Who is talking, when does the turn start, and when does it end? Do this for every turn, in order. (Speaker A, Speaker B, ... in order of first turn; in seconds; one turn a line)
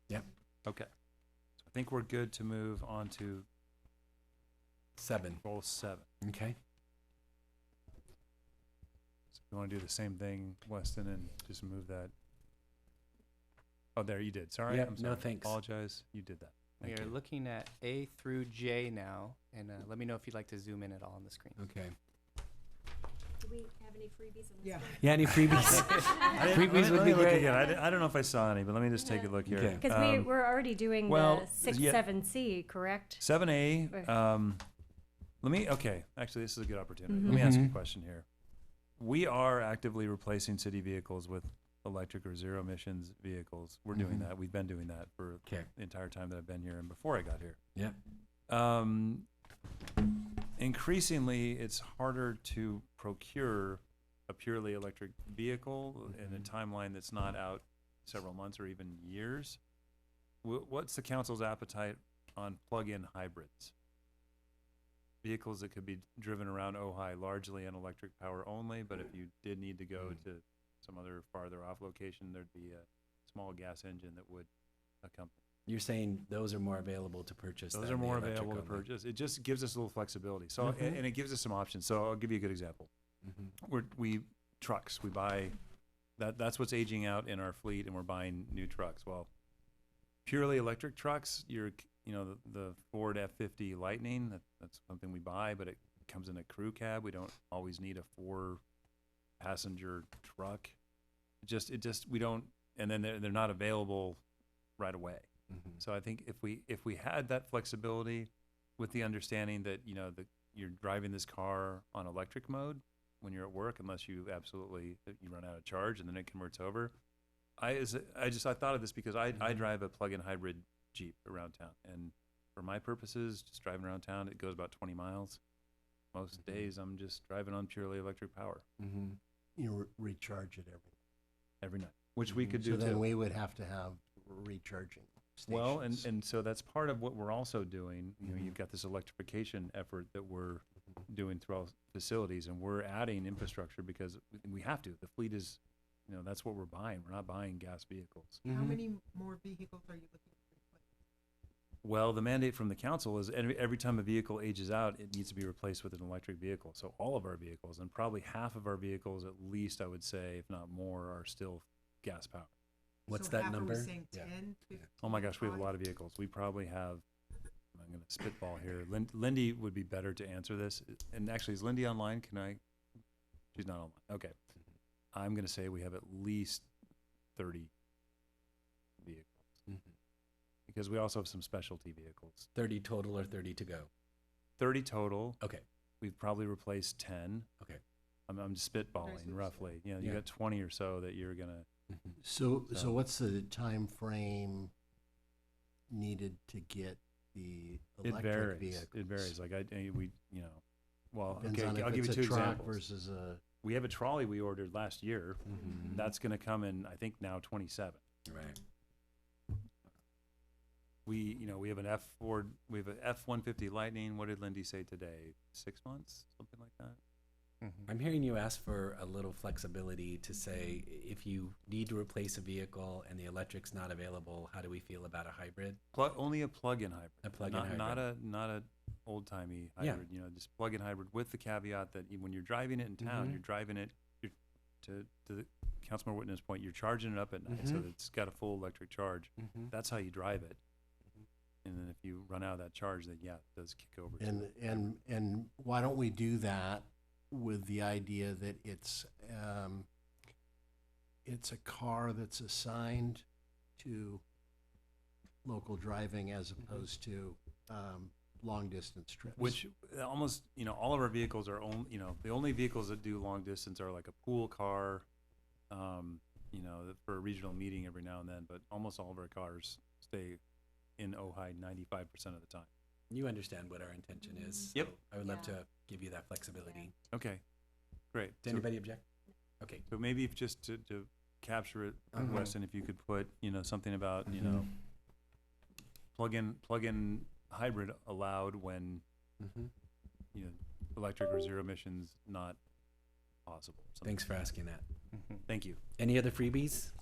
Speaker A: 1.6-3.5
Speaker B: 5.0-5.4
Speaker A: 5.4-6.1
Speaker B: 6.2-6.6
Speaker A: 9.3-12.1
Speaker A: 14.0-17.2
Speaker B: 14.7-15.6
Speaker C: 16.8-21.6
Speaker B: 21.6-21.9
Speaker D: 23.4-26.5
Speaker B: 25.0-27.6
Speaker A: 25.6-30.3
Speaker E: 29.1-33.2
Speaker B: 29.5-29.8
Speaker A: 31.1-32.0
Speaker A: 33.2-34.6
Speaker A: 35.4-38.3
Speaker E: 37.1-37.5
Speaker B: 37.3-37.8
Speaker A: 39.0-47.6
Speaker B: 43.9-44.3
Speaker A: 48.5-49.3
Speaker A: 50.4-59.6
Speaker A: 60.4-63.7
Speaker A: 65.2-74.5
Speaker A: 75.0-75.4
Speaker B: 75.7-78.9
Speaker A: 77.7-82.9
Speaker B: 80.6-81.0
Speaker B: 83.2-83.5
Speaker A: 83.6-85.6
Speaker A: 86.2-89.3
Speaker A: 90.3-98.6
Speaker A: 99.4-100.8
Speaker A: 101.4-104.2
Speaker A: 104.8-116.9
Speaker A: 117.6-125.4
Speaker A: 126.1-128.6
Speaker B: 128.8-129.2
Speaker F: 129.6-130.9
Speaker A: 131.6-133.0
Speaker F: 132.5-135.3
Speaker B: 135.4-135.8
Speaker A: 135.5-148.4
Speaker B: 138.2-138.5
Speaker B: 148.5-148.8
Speaker G: 148.5-150.9
Speaker A: 151.8-162.5
Speaker B: 163.1-164.3
Speaker G: 163.1-165.7
Speaker A: 165.0-167.0
Speaker A: 167.7-172.6
Speaker A: 173.6-174.3
Speaker A: 175.1-176.7
Speaker A: 177.4-177.7
Speaker A: 179.0-179.6
Speaker A: 180.7-182.5
Speaker B: 182.6-183.9
Speaker A: 184.6-185.4
Speaker A: 186.0-187.5
Speaker A: 188.3-191.7
Speaker B: 191.9-192.2
Speaker F: 192.2-194.7
Speaker F: 195.9-199.3
Speaker A: 198.0-202.8
Speaker F: 201.3-203.4
Speaker A: 203.6-208.0
Speaker B: 205.5-206.1
Speaker B: 208.3-208.6
Speaker A: 211.1-217.0
Speaker C: 217.6-217.9
Speaker B: 217.9-225.8
Speaker A: 225.9-240.6
Speaker B: 227.2-228.1
Speaker B: 233.0-233.4
Speaker B: 237.5-237.9
Speaker B: 239.4-239.7
Speaker A: 241.7-244.9
Speaker F: 244.2-249.9
Speaker F: 251.2-253.2
Speaker F: 253.8-254.2
Speaker F: 255.4-259.6
Speaker A: 259.4-265.1
Speaker A: 265.7-270.4
Speaker A: 271.0-272.7
Speaker B: 273.1-276.9
Speaker A: 277.1-277.4
Speaker A: 278.1-278.7
Speaker B: 278.4-279.0
Speaker B: 279.6-279.9
Speaker A: 279.9-284.7
Speaker B: 282.1-282.5
Speaker B: 284.3-284.7
Speaker A: 286.1-289.0
Speaker B: 289.4-289.7
Speaker A: 290.3-292.6
Speaker A: 293.5-294.3
Speaker B: 294.0-294.9
Speaker A: 295.5-295.8
Speaker B: 296.0-296.9